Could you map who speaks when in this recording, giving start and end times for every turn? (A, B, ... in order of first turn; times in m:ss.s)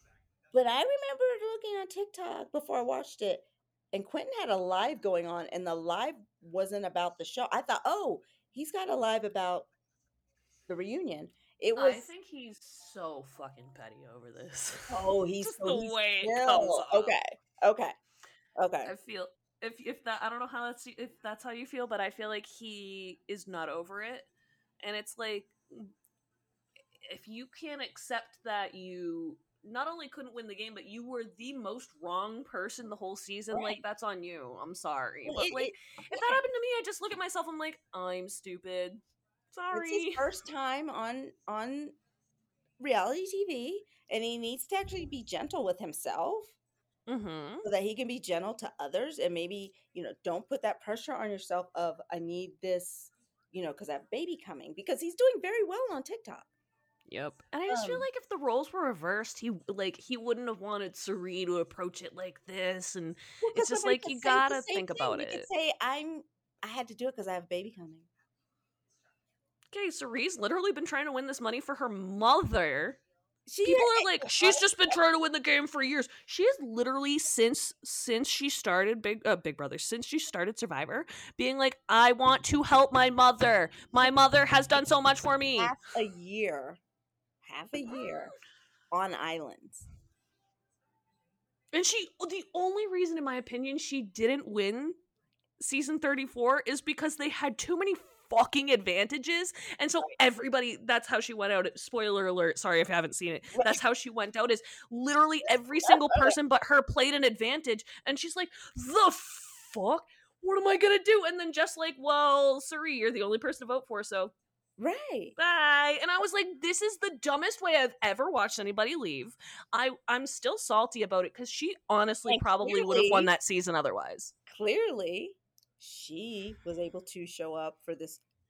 0:00.5-0:09.7 A
0:10.7-0:12.1 A
0:11.8-0:17.2 B
0:14.9-0:17.9 A
0:18.6-0:18.9 A
0:18.8-0:24.3 B
0:24.8-0:25.9 B
0:27.0-0:40.3 B
0:33.5-0:33.8 A
0:35.2-0:36.4 A
0:39.7-0:41.9 A
0:42.8-0:46.6 A
0:47.1-0:47.6 B
0:47.6-0:56.5 A
0:57.1-1:05.5 B
0:57.7-0:58.1 A
1:03.4-1:08.1 A
1:09.7-1:13.0 B
1:13.5-1:14.9 A
1:13.6-1:25.8 B
1:25.6-1:26.8 A
1:27.4-1:28.3 A
1:27.8-1:28.1 B
1:28.9-1:29.8 A
1:31.7-1:35.0 B
1:35.6-1:54.3 B
1:43.5-1:43.8 A
1:45.4-1:46.3 A
1:54.8-1:55.3 A
1:55.4-2:04.3 B
2:02.3-2:03.3 A
2:04.5-2:08.2 A